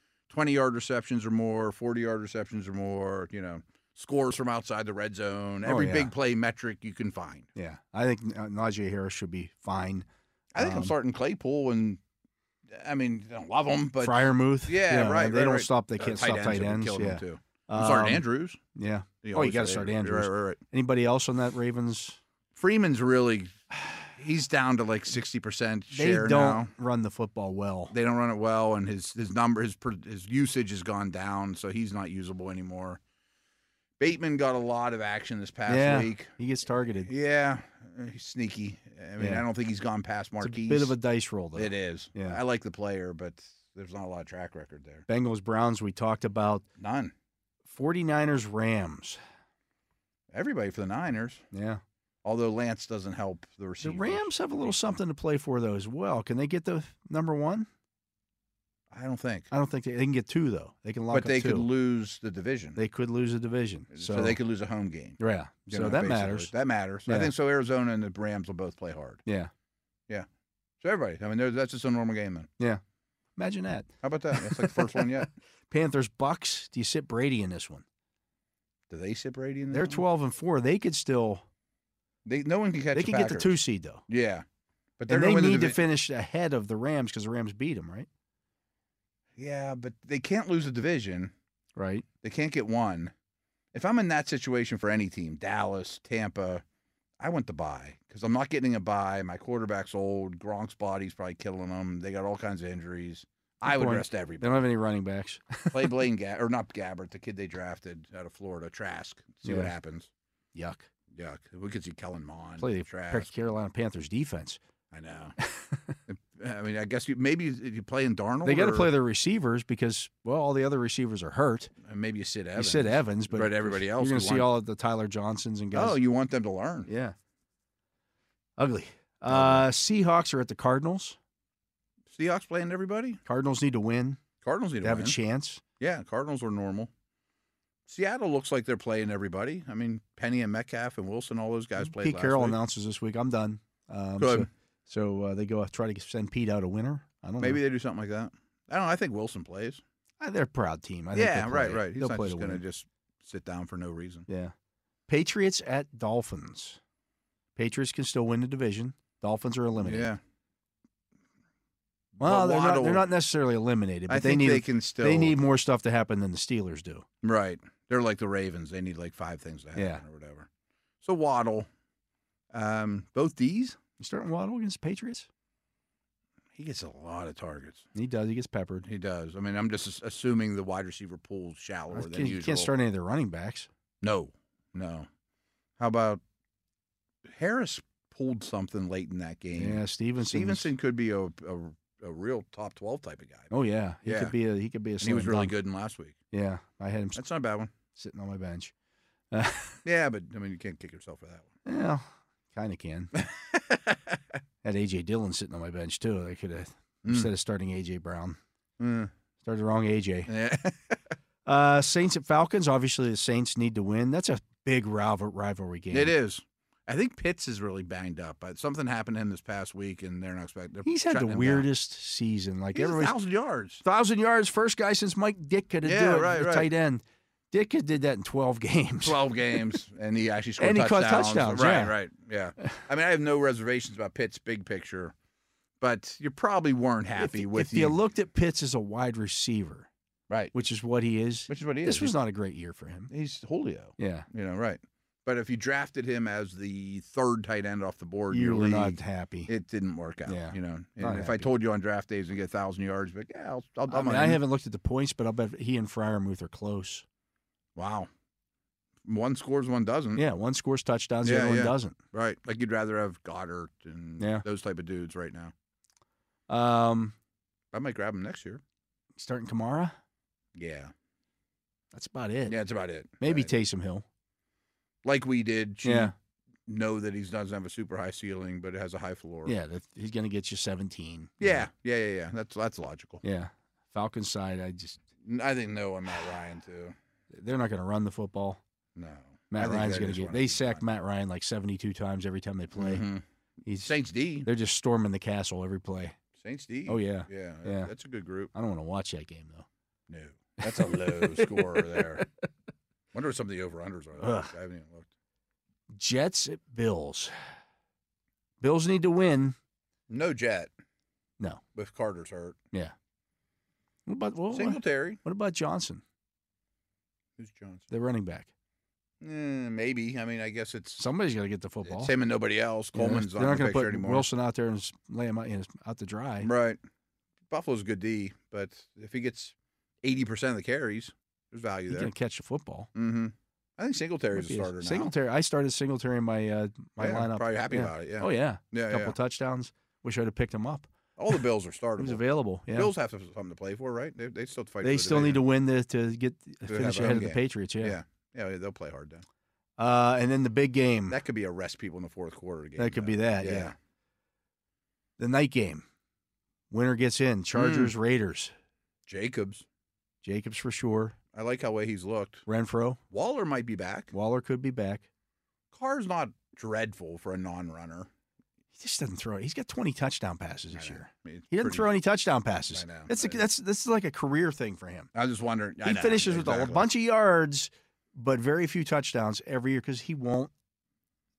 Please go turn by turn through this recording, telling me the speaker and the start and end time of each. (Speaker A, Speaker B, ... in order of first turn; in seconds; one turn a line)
Speaker A: 0.3-7.5
Speaker B: 5.6-6.1
Speaker B: 7.5-10.1
Speaker A: 10.5-12.0
Speaker B: 10.6-10.9
Speaker A: 12.7-18.6
Speaker B: 14.0-22.2
Speaker A: 19.2-20.6
Speaker A: 22.5-26.7
Speaker B: 25.9-27.9
Speaker A: 27.9-33.0
Speaker A: 34.0-36.3
Speaker B: 35.7-37.1
Speaker A: 37.0-40.9
Speaker B: 39.2-39.5
Speaker B: 40.4-42.4
Speaker A: 41.5-45.0
Speaker B: 45.1-46.6
Speaker A: 46.8-47.1
Speaker B: 47.6-49.2
Speaker A: 50.3-51.4
Speaker B: 51.5-51.8
Speaker A: 52.2-55.0
Speaker B: 53.8-57.7
Speaker A: 58.9-59.5
Speaker B: 59.5-61.7
Speaker A: 61.1-62.8
Speaker B: 62.8-64.4
Speaker A: 63.9-69.2
Speaker B: 65.2-66.5
Speaker B: 67.0-67.3
Speaker B: 69.2-69.5
Speaker A: 70.8-72.5
Speaker B: 73.4-77.8
Speaker A: 74.0-75.3
Speaker A: 78.9-80.0
Speaker B: 79.7-81.4
Speaker A: 82.2-84.4
Speaker B: 82.9-84.0
Speaker A: 85.0-85.8
Speaker B: 85.1-88.1
Speaker A: 89.4-91.3
Speaker B: 91.8-92.0
Speaker A: 92.2-93.1
Speaker A: 93.7-96.6
Speaker A: 97.2-104.7
Speaker B: 103.6-106.0
Speaker A: 105.7-110.1
Speaker B: 109.4-109.7
Speaker B: 110.5-110.9
Speaker A: 111.1-113.3
Speaker B: 112.6-114.6
Speaker A: 114.9-115.3
Speaker B: 115.4-116.0
Speaker A: 116.1-118.9
Speaker B: 118.4-121.7
Speaker A: 121.8-124.5
Speaker B: 122.5-126.0
Speaker A: 125.7-126.9
Speaker B: 126.9-127.2
Speaker B: 128.6-131.2
Speaker A: 129.3-129.7
Speaker A: 132.1-133.2
Speaker B: 133.2-134.2
Speaker A: 134.4-135.2
Speaker B: 134.8-135.6
Speaker A: 135.8-136.9
Speaker A: 137.9-142.6
Speaker B: 141.8-147.6
Speaker A: 144.2-144.5
Speaker A: 147.4-149.8
Speaker B: 150.2-152.6
Speaker A: 151.1-154.2
Speaker B: 154.3-154.5
Speaker B: 155.1-156.8
Speaker B: 157.6-160.1
Speaker A: 159.8-160.2
Speaker A: 162.2-163.1
Speaker B: 162.2-167.1
Speaker A: 164.1-165.4
Speaker A: 167.2-170.5
Speaker B: 169.7-170.0
Speaker A: 171.0-171.7
Speaker A: 172.5-173.8
Speaker B: 174.0-175.3
Speaker A: 176.5-177.9
Speaker B: 177.9-178.9
Speaker A: 178.8-182.7
Speaker B: 181.9-183.7
Speaker A: 184.0-185.1
Speaker A: 185.8-186.2
Speaker A: 187.2-193.5
Speaker B: 189.6-190.7
Speaker B: 193.5-195.5
Speaker A: 194.0-194.3
Speaker A: 195.0-196.2
Speaker B: 196.3-197.2
Speaker A: 197.2-197.7
Speaker B: 197.9-198.7
Speaker B: 199.3-199.8
Speaker A: 199.8-201.5
Speaker B: 201.6-203.1
Speaker A: 203.1-204.2
Speaker B: 204.6-208.4
Speaker A: 207.0-207.3
Speaker A: 208.8-209.1
Speaker B: 209.4-210.3
Speaker A: 210.3-211.1
Speaker B: 211.4-216.1
Speaker A: 215.9-221.7
Speaker B: 220.8-223.2
Speaker A: 222.7-223.8
Speaker B: 223.8-229.8
Speaker A: 225.8-226.7
Speaker A: 229.0-235.1
Speaker B: 230.6-231.9
Speaker A: 235.8-238.0
Speaker B: 237.2-239.9
Speaker A: 240.3-240.5
Speaker B: 240.5-243.1
Speaker A: 241.5-242.1
Speaker A: 243.1-254.4
Speaker B: 244.0-244.3
Speaker B: 248.3-249.5
Speaker B: 250.3-251.5
Speaker B: 253.9-257.0
Speaker A: 257.8-258.1
Speaker A: 259.0-260.2
Speaker B: 260.1-261.9
Speaker A: 261.2-265.5
Speaker B: 264.2-264.4
Speaker B: 266.5-267.1
Speaker A: 267.7-268.6
Speaker B: 269.2-269.9
Speaker A: 270.5-270.9
Speaker B: 271.9-272.6
Speaker A: 272.4-273.5
Speaker B: 273.2-274.0
Speaker A: 275.0-276.1
Speaker B: 275.8-276.1
Speaker A: 276.6-279.5
Speaker B: 279.4-281.7
Speaker A: 281.4-283.2
Speaker B: 283.2-285.0
Speaker A: 285.2-286.9
Speaker B: 287.3-288.6
Speaker A: 288.9-290.8
Speaker B: 289.5-293.1
Speaker A: 292.8-293.2
Speaker B: 293.6-296.2
Speaker A: 293.8-294.5
Speaker A: 296.4-298.5
Speaker B: 296.9-297.9
Speaker B: 298.5-299.7
Speaker A: 300.1-302.2
Speaker B: 300.6-302.3
Speaker A: 303.1-305.1
Speaker B: 304.2-304.5
Speaker B: 305.9-307.3
Speaker B: 308.6-309.6
Speaker A: 310.1-310.7
Speaker A: 311.7-312.6
Speaker B: 314.1-316.0
Speaker A: 314.5-315.2
Speaker A: 317.4-317.9
Speaker B: 317.9-318.5
Speaker A: 319.2-321.0
Speaker B: 321.0-322.1
Speaker A: 321.8-324.3
Speaker B: 322.9-326.5
Speaker A: 326.4-326.8
Speaker A: 327.5-332.1
Speaker B: 331.9-332.9
Speaker A: 332.9-335.1
Speaker B: 334.3-341.4
Speaker A: 337.0-339.1
Speaker A: 341.2-345.4
Speaker B: 342.0-342.9
Speaker B: 344.8-348.0
Speaker A: 346.6-349.2
Speaker B: 349.8-351.2
Speaker A: 351.1-353.7
Speaker B: 352.8-353.7
Speaker B: 355.2-355.8
Speaker B: 356.7-358.5
Speaker A: 357.5-357.9
Speaker A: 359.1-359.6
Speaker B: 360.2-361.1
Speaker A: 361.3-362.4
Speaker B: 362.5-363.0
Speaker A: 363.1-364.1
Speaker B: 364.1-365.0
Speaker A: 365.7-368.1
Speaker B: 368.7-375.1
Speaker A: 370.7-371.9
Speaker A: 372.7-373.4
Speaker A: 375.1-376.9
Speaker B: 375.8-380.5